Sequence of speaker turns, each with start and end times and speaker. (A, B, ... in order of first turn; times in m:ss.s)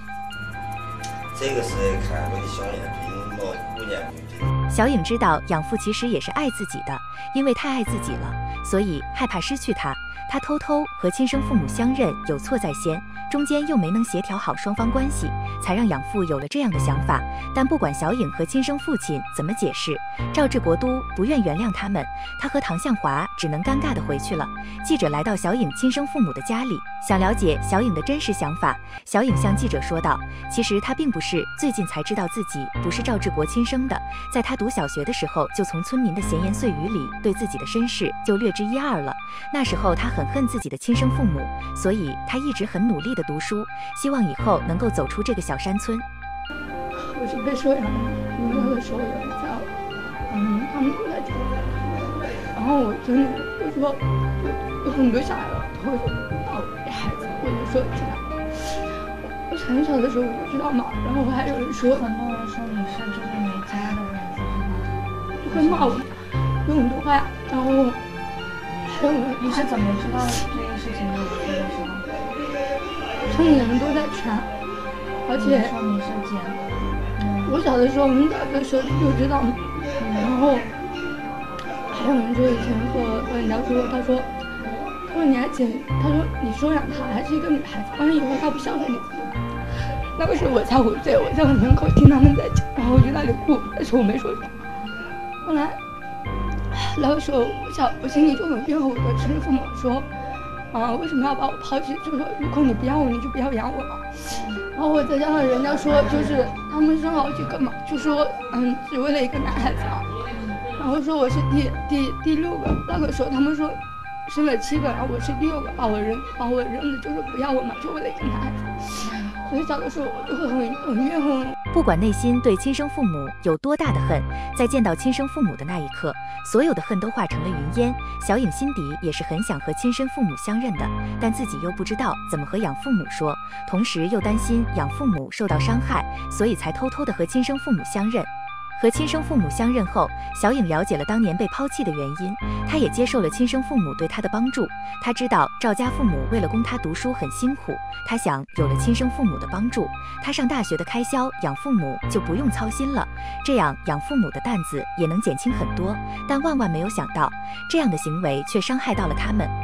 0:01.3-0:04.5 A
0:04.7-0:46.0 B
0:46.9-0:49.7 C
0:50.3-0:58.8 C
0:59.5-1:02.1 C
1:01.5-1:06.0 D
1:05.4-1:06.1 C
1:06.6-1:08.0 C
1:08.9-1:09.7 C
1:09.4-1:12.2 D
1:13.3-1:14.5 C
1:15.3-1:15.8 C
1:15.3-1:17.6 D
1:17.4-1:19.6 C
1:20.0-1:20.3 D
1:20.1-1:20.7 C
1:21.9-1:24.3 C
1:24.6-1:25.0 D
1:25.1-1:29.3 C
1:30.2-1:34.6 C
1:35.4-1:35.8 C
1:36.7-1:40.1 C
1:40.7-1:44.1 C
1:44.3-1:44.6 D
1:44.7-1:50.1 C
1:45.8-1:46.4 D
1:50.3-1:50.6 D
1:50.8-2:01.6 C
1:59.1-1:59.4 D
2:01.7-2:39.5 B